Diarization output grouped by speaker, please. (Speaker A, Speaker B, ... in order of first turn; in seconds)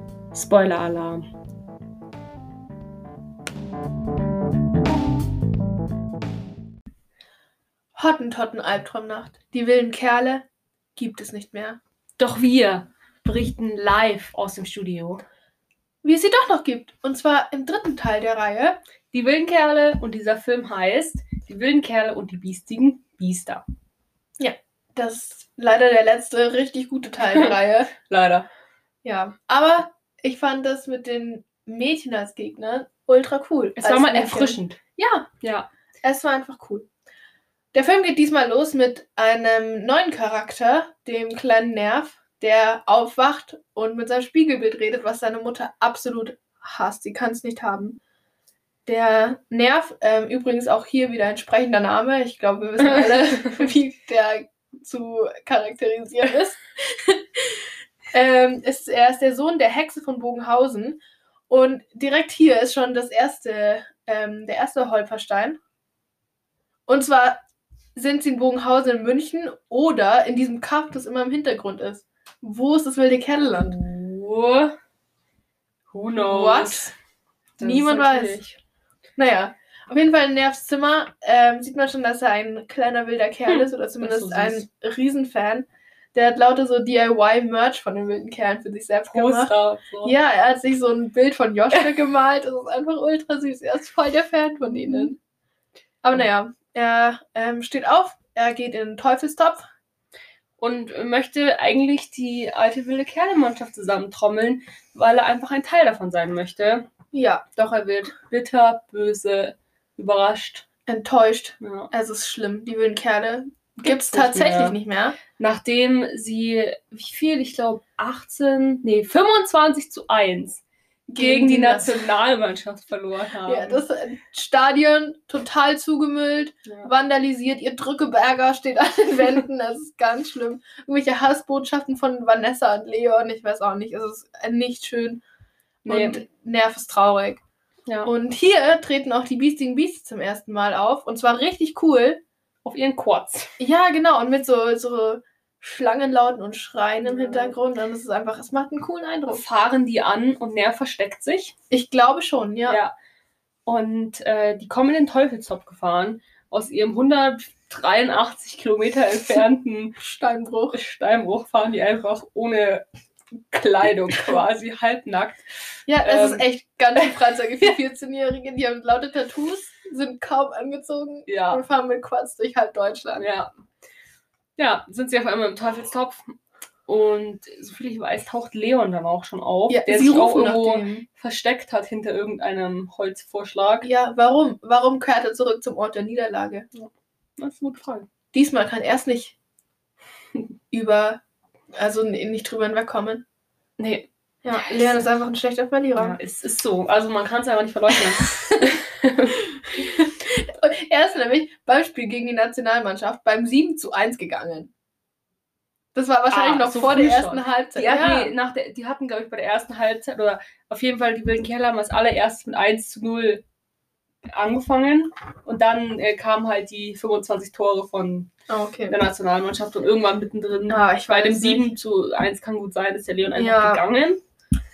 Speaker A: 0.3-1.2, 12.2-15.2, 19.1-23.6, 27.3-28.5, 33.8-34.8, 35.4-35.7, 52.9-53.2, 73.5-74.8, 75.9-76.9, 77.6-78.6, 83.5-84.6, 89.1-90.1, 94.7-95.1, 100.6-106.9, 107.5-110.6, 111.6-111.9, 113.8-114.8, 115.4-120.6, 121.2-123.8, 135.9-136.2, 142.6-143.5, 147.0-147.6, 149.3-151.5, 152.7-152.9, 153.7-160.0, 160.7-162.8, 163.5-165.4, 166.0-166.4, 171.3-171.6, 173.1-173.5, 174.6-176.3, 176.9-183.9, 186.7-188.1, 193.8-194.1, 194.6-195.0, 195.9-199.4, 206.3-213.4, 214.3-218.3, 218.9-224.2
Speaker B: 8.0-11.8, 16.0-18.8, 24.4-27.9, 29.0-35.3, 36.0-36.9, 37.7-48.0, 48.9-57.2, 58.1-61.0, 61.5-65.6, 66.9-67.4, 67.9-73.8, 76.2-76.9, 77.6-78.4, 79.2-95.2, 96.0-99.7, 107.1-107.5, 110.9-115.2, 121.1-122.0, 123.5-135.2, 135.8-137.4, 138.0-142.2, 143.6-149.4, 151.7-152.8, 160.0-160.8, 165.9-173.2, 179.7-181.0, 183.8-186.7, 188.3-189.3, 190.7-191.2, 191.7-193.2, 194.4-196.2, 198.2-198.7, 199.6-204.7, 205.9-208.3, 218.5-219.0, 220.7-221.7, 223.3-223.8